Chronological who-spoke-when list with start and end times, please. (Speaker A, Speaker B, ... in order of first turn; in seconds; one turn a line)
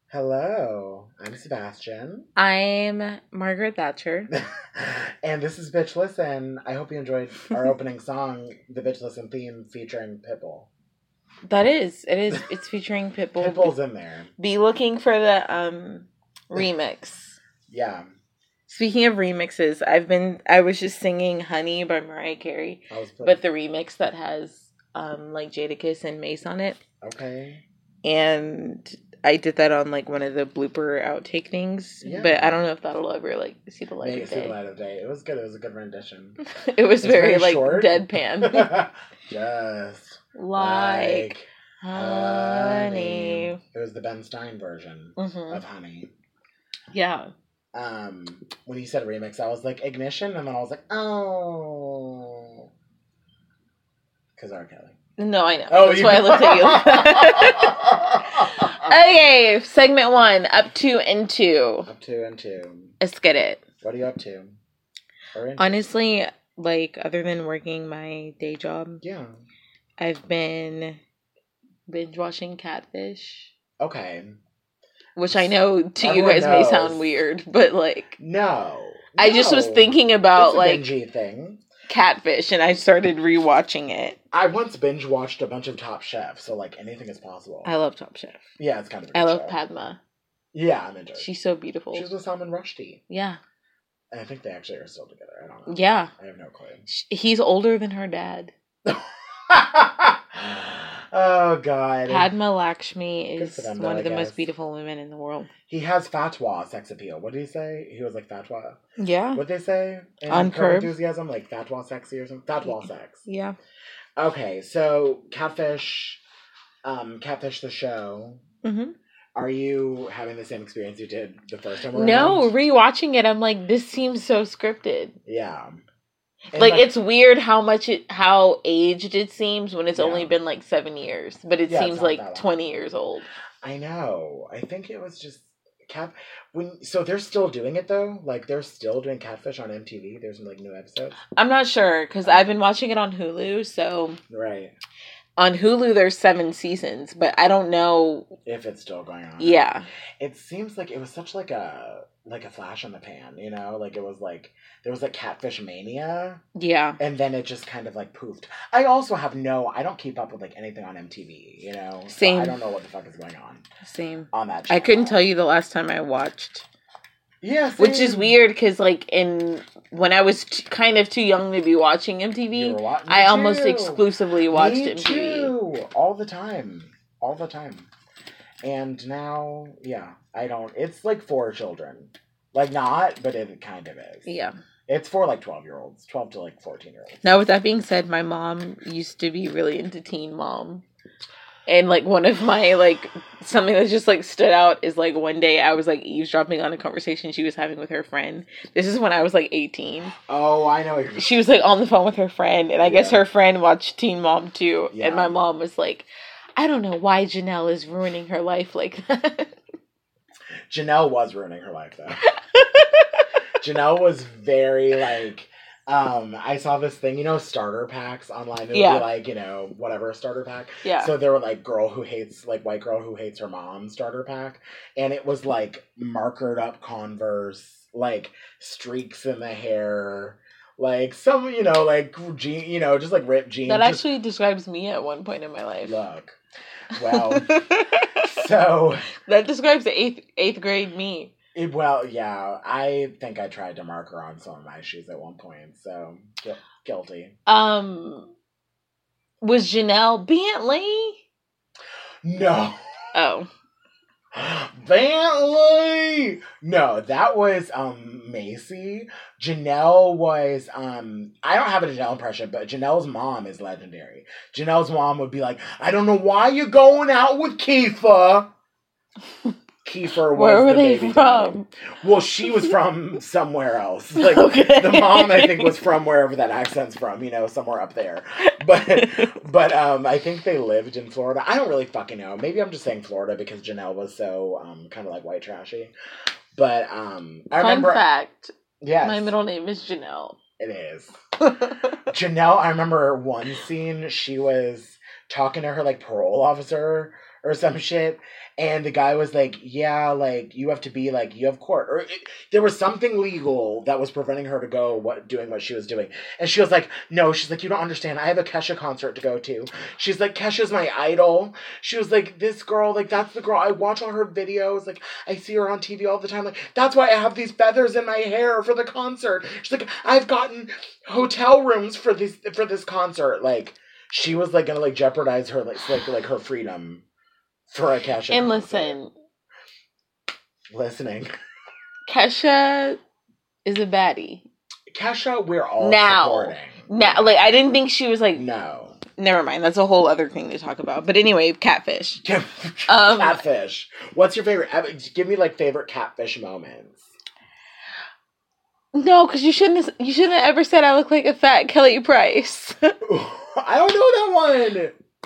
Speaker A: 0.1-2.3
Speaker B: 2.4-4.3
Speaker A: 4.3-10.7
Speaker B: 11.4-13.7
Speaker A: 13.4-14.3
Speaker B: 14.4-17.4
Speaker A: 17.7-18.1
Speaker B: 18.7-26.8
Speaker A: 22.9-23.4
Speaker A: 27.0-27.6
Speaker B: 28.0-34.5
Speaker A: 32.0-32.6
Speaker A: 34.0-36.4
Speaker B: 36.4-38.7
Speaker A: 37.0-46.1
Speaker B: 40.3-43.6
Speaker B: 45.2-45.6
Speaker B: 46.9-47.3
Speaker A: 47.7-52.7
Speaker A: 54.4-54.9
Speaker B: 55.2-57.7
Speaker A: 55.7-59.0
Speaker B: 58.4-61.9
Speaker A: 61.9-62.9
Speaker B: 63.0-63.6
Speaker A: 63.8-64.6
Speaker A: 65.3-65.9
Speaker B: 65.6-69.0
Speaker A: 69.0-69.3
Speaker B: 70.0-71.0
Speaker B: 71.9-73.5
Speaker A: 73.8-74.4
Speaker B: 75.2-78.2
Speaker A: 75.3-77.0
Speaker A: 78.2-81.6
Speaker B: 79.2-80.9
Speaker B: 81.9-84.2
Speaker A: 84.3-87.7
Speaker B: 87.6-88.4
Speaker A: 88.6-89.6
Speaker B: 89.1-90.0
Speaker A: 90.5-91.3
Speaker B: 91.2-92.0
Speaker A: 91.9-93.0
Speaker B: 93.1-93.4
Speaker A: 94.1-96.8
Speaker B: 95.7-96.1
Speaker B: 96.9-98.5
Speaker A: 98.8-102.3
Speaker B: 102.1-105.5
Speaker A: 103.4-104.4
Speaker A: 105.7-108.8
Speaker B: 109.0-109.4
Speaker A: 109.3-113.2
Speaker B: 110.3-110.9
Speaker B: 112.6-113.5
Speaker A: 114.2-116.2
Speaker A: 116.8-118.4
Speaker B: 118.6-118.9
Speaker A: 119.3-122.5
Speaker B: 121.9-125.1
Speaker A: 125.2-125.8
Speaker A: 126.5-126.9
Speaker B: 126.5-133.2
Speaker A: 129.9-130.3
Speaker A: 131.7-132.5
Speaker A: 133.6-141.2
Speaker B: 141.3-144.2
Speaker A: 142.2-142.5
Speaker A: 144.3-144.7
Speaker B: 145.4-148.3
Speaker A: 148.4-149.7
Speaker B: 149.4-149.8
Speaker A: 150.2-156.4
Speaker B: 156.6-157.0
Speaker A: 157.0-163.6
Speaker B: 162.1-162.5
Speaker B: 163.8-166.7
Speaker A: 164.3-165.3
Speaker A: 167.4-168.4
Speaker B: 167.8-175.5
Speaker A: 172.5-177.9
Speaker A: 178.6-184.3
Speaker B: 184.2-184.5
Speaker A: 184.9-187.2
Speaker B: 187.2-190.8
Speaker B: 191.7-200.1
Speaker A: 200.2-201.3
Speaker B: 201.2-209.5
Speaker A: 202.8-203.2
Speaker A: 204.9-205.3
Speaker A: 210.7-212.2
Speaker B: 212.4-213.2
Speaker A: 213.6-234.0
Speaker B: 218.7-219.0
Speaker B: 220.8-221.1
Speaker B: 233.7-236.0
Speaker A: 235.8-236.4
Speaker A: 236.9-237.6
Speaker B: 237.0-238.4
Speaker A: 238.1-239.1
Speaker B: 239.2-241.3
Speaker A: 241.5-247.3
Speaker B: 247.5-248.3
Speaker B: 249.4-251.2
Speaker A: 252.2-252.8
Speaker B: 253.1-253.5
Speaker A: 254.3-268.5
Speaker A: 269.8-285.9
Speaker B: 270.3-271.7
Speaker B: 274.1-275.8
Speaker B: 279.0-279.3
Speaker A: 286.5-288.0
Speaker B: 287.5-290.4
Speaker A: 288.8-289.3
Speaker A: 290.6-291.2
Speaker B: 291.4-292.0
Speaker A: 292.1-327.0
Speaker A: 327.7-328.9
Speaker B: 328.3-329.1
Speaker A: 330.7-331.3
Speaker B: 332.1-333.0
Speaker B: 333.6-334.4
Speaker A: 334.9-337.5
Speaker B: 335.8-338.4
Speaker A: 338.3-339.0
Speaker B: 339.2-342.2
Speaker A: 342.2-347.1
Speaker B: 342.9-343.4
Speaker B: 348.9-352.9
Speaker A: 353.0-354.9